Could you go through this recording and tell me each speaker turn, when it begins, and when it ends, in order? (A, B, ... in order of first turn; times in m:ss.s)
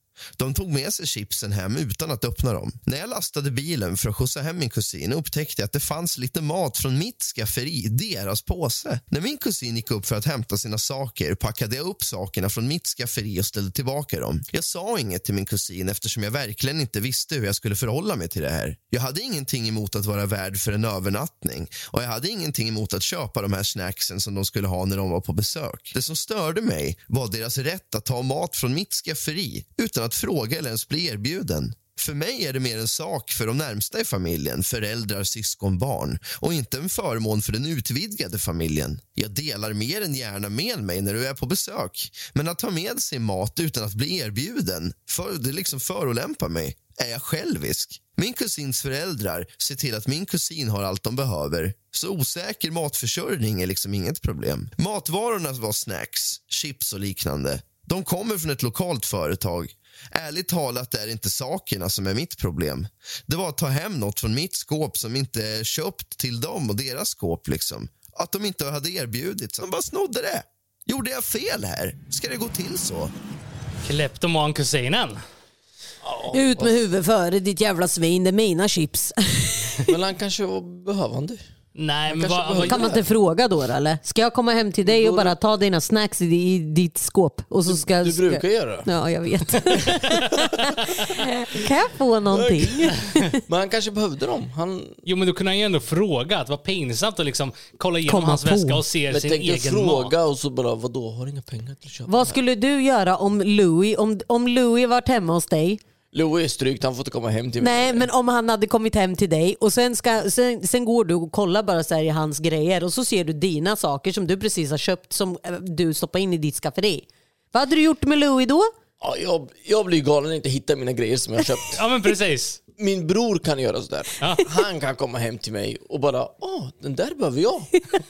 0:00.4-1:13.1 A
1:13.8-1:15.2 B
1:16.0-1:16.8 C
1:16.3-1:19.8 D
1:19.8-1:21.4 C
1:21.8-1:22.8 B
1:22.1-1:23.1 C
1:22.6-1:33.3 D
1:24.8-1:25.4 C
1:27.7-1:28.9 C
1:29.6-1:30.5 C
1:32.3-1:35.0 C
1:35.0-1:40.1 B
1:38.0-1:38.8 D
1:39.1-1:42.4 C
1:42.1-1:45.8 D
1:46.1-1:48.1 C
1:47.6-1:58.7 D
1:59.0-2:01.8 C
2:01.7-2:02.6 B
2:02.8-2:07.8 C